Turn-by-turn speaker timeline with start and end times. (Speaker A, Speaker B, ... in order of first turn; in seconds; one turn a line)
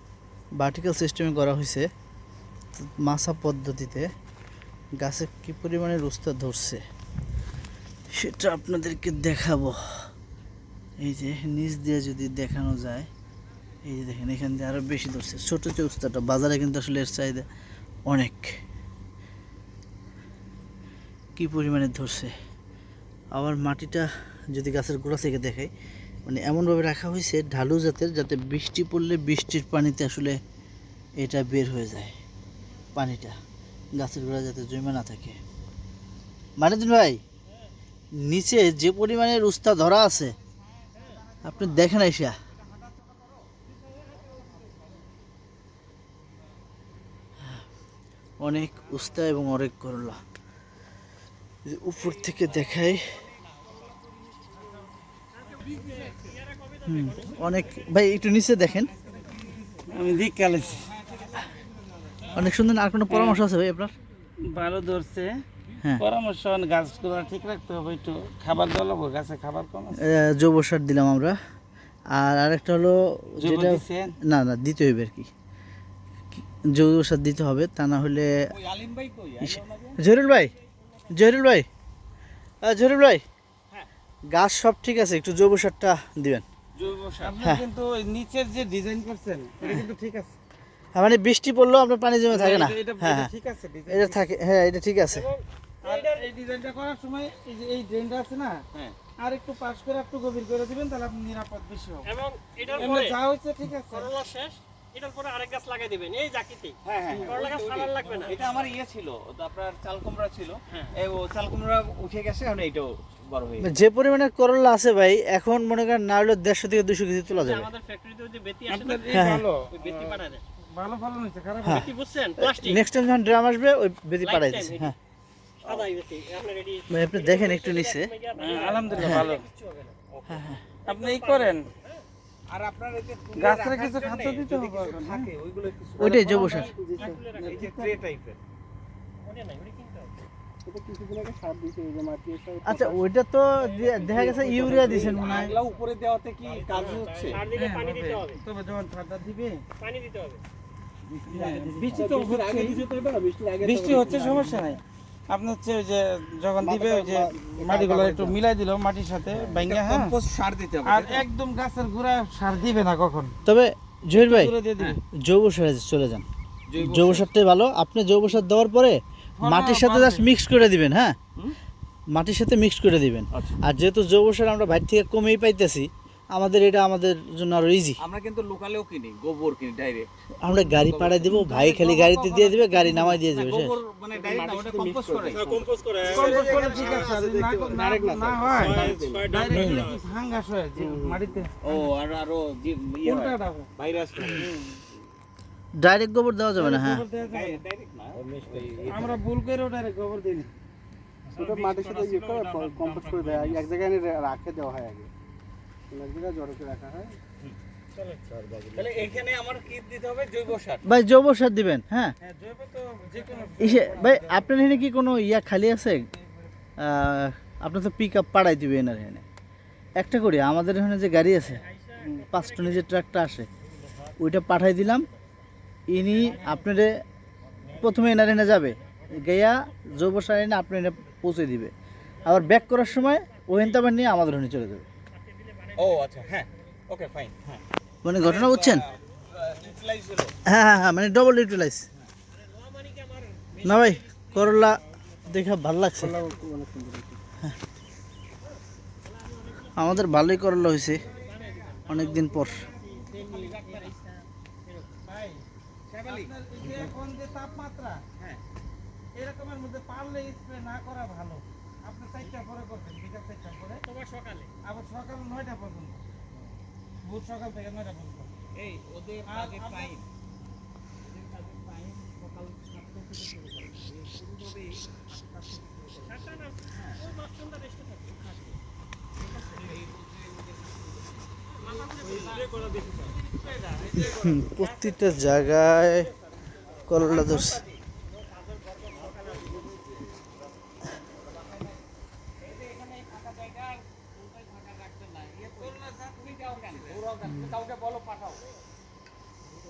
Speaker A: 0.6-1.9
Speaker A: 2.8-4.1
Speaker A: 5.0-6.8
Speaker A: 8.1-9.8
Speaker A: 11.0-13.1
Speaker A: 13.8-17.5
Speaker A: 18.1-18.5
Speaker A: 21.4-22.3
Speaker A: 23.3-25.7
Speaker A: 26.2-30.4
Speaker A: 31.2-32.1
Speaker A: 32.9-33.4
Speaker A: 34.0-35.4
Speaker A: 36.6-37.2
Speaker A: 38.2-40.3
Speaker A: 41.4-42.4
Speaker A: 48.4-50.2
Speaker A: 51.6-53.2
Speaker B: 52.1-52.9
Speaker C: 55.5-57.9
Speaker A: 56.8-58.9
Speaker B: 59.0-59.3
Speaker D: 59.7-60.9
Speaker A: 62.3-63.9
Speaker D: 63.1-63.4
Speaker D: 64.5-65.4
Speaker D: 66.0-70.0
Speaker A: 70.0-71.4
Speaker A: 72.1-75.3
Speaker D: 73.4-74.2
Speaker A: 76.7-78.5
Speaker B: 78.5-80.0
Speaker A: 79.4-80.5
Speaker A: 81.1-81.7
Speaker A: 82.6-83.2
Speaker A: 84.3-86.4
Speaker B: 86.7-87.4
Speaker D: 87.2-90.3
Speaker A: 90.9-93.3
Speaker D: 92.3-94.3
Speaker A: 93.9-95.3
Speaker C: 95.1-96.3
Speaker D: 95.8-98.6
Speaker B: 98.7-99.0
Speaker D: 99.1-102.1
Speaker C: 102.0-103.2
Speaker D: 102.7-104.1
Speaker C: 103.9-108.7
Speaker B: 106.8-113.7
Speaker A: 113.6-117.7
Speaker C: 117.3-119.1
Speaker D: 118.7-119.8
Speaker A: 119.1-119.5
Speaker C: 119.8-120.4
Speaker D: 120.6-121.8
Speaker A: 121.6-124.9
Speaker C: 121.7-122.8
Speaker C: 124.2-124.9
Speaker B: 125.6-125.9
Speaker C: 125.7-130.1
Speaker A: 126.9-128.1
Speaker D: 128.3-129.4
Speaker A: 128.9-129.3
Speaker B: 130.2-130.4
Speaker A: 130.3-130.6
Speaker C: 130.8-132.0
Speaker D: 130.8-131.7
Speaker B: 132.5-136.2
Speaker D: 133.3-135.3
Speaker A: 136.0-136.7
Speaker E: 136.0-137.5
Speaker C: 136.3-137.7
Speaker B: 137.3-138.4
Speaker D: 137.6-137.9
Speaker C: 139.2-140.2
Speaker E: 140.6-143.1
Speaker A: 142.6-145.5
Speaker C: 143.6-144.1
Speaker E: 144.1-145.5
Speaker B: 144.4-147.4
Speaker C: 146.4-148.4
Speaker D: 147.4-149.6
Speaker C: 149.8-150.4
Speaker D: 151.3-152.8
Speaker E: 151.3-154.7
Speaker B: 151.6-152.0
Speaker D: 153.6-160.2
Speaker E: 156.6-158.4
Speaker B: 159.3-161.3
Speaker D: 160.8-163.4
Speaker A: 163.4-164.5
Speaker D: 164.1-165.0
Speaker A: 165.2-166.2
Speaker B: 166.7-167.3
Speaker A: 166.8-171.2
Speaker D: 169.4-170.3
Speaker A: 172.1-178.0
Speaker B: 178.0-180.1
Speaker A: 180.4-183.8
Speaker B: 180.7-185.4
Speaker E: 184.1-189.3
Speaker C: 185.3-187.1
Speaker D: 186.0-191.7
Speaker B: 186.1-187.1
Speaker B: 188.5-190.0
Speaker C: 188.7-189.0
Speaker A: 189.5-189.9
Speaker E: 190.8-191.3
Speaker B: 191.6-194.5
Speaker D: 193.0-193.7
Speaker D: 194.2-194.8
Speaker A: 195.8-197.0
Speaker D: 196.6-197.6
Speaker B: 197.1-199.2
Speaker E: 198.2-199.1
Speaker D: 198.9-200.5
Speaker B: 201.2-203.7
Speaker E: 201.4-205.1
Speaker E: 205.9-207.2
Speaker E: 208.5-208.8
Speaker B: 208.7-210.8
Speaker A: 210.8-212.1
Speaker D: 212.2-214.5
Speaker A: 213.6-216.1
Speaker A: 216.8-219.2
Speaker A: 220.0-223.5
Speaker C: 221.6-222.8
Speaker A: 224.2-225.1
Speaker A: 225.9-227.0
Speaker A: 227.8-231.7
Speaker C: 232.2-233.8
Speaker A: 232.2-234.8
Speaker C: 235.1-236.4
Speaker B: 235.8-237.6
Speaker A: 238.0-238.8
Speaker B: 238.2-240.4
Speaker A: 240.4-241.9
Speaker C: 242.3-245.1
Speaker A: 243.6-246.1
Speaker E: 245.9-247.2
Speaker C: 249.1-250.1
Speaker A: 249.7-251.0
Speaker B: 250.9-251.9
Speaker C: 251.0-255.0
Speaker A: 251.9-252.7
Speaker D: 252.8-253.3
Speaker B: 253.3-253.9
Speaker D: 255.1-255.4
Speaker B: 255.9-256.3
Speaker D: 256.1-258.1
Speaker E: 256.6-256.9
Speaker D: 259.1-263.8
Speaker C: 263.8-264.5
Speaker D: 264.6-266.0
Speaker D: 267.0-268.3
Speaker B: 268.5-270.0
Speaker D: 269.2-270.0
Speaker B: 271.1-277.1
Speaker C: 276.0-278.6
Speaker B: 279.4-282.5
Speaker C: 281.6-283.2
Speaker D: 283.7-284.2
Speaker A: 283.9-286.1
Speaker C: 284.0-285.1
Speaker A: 286.9-287.6
Speaker C: 286.9-287.7
Speaker C: 288.3-289.7
Speaker B: 289.3-289.7
Speaker B: 292.4-298.4
Speaker D: 295.5-297.1
Speaker A: 297.3-297.5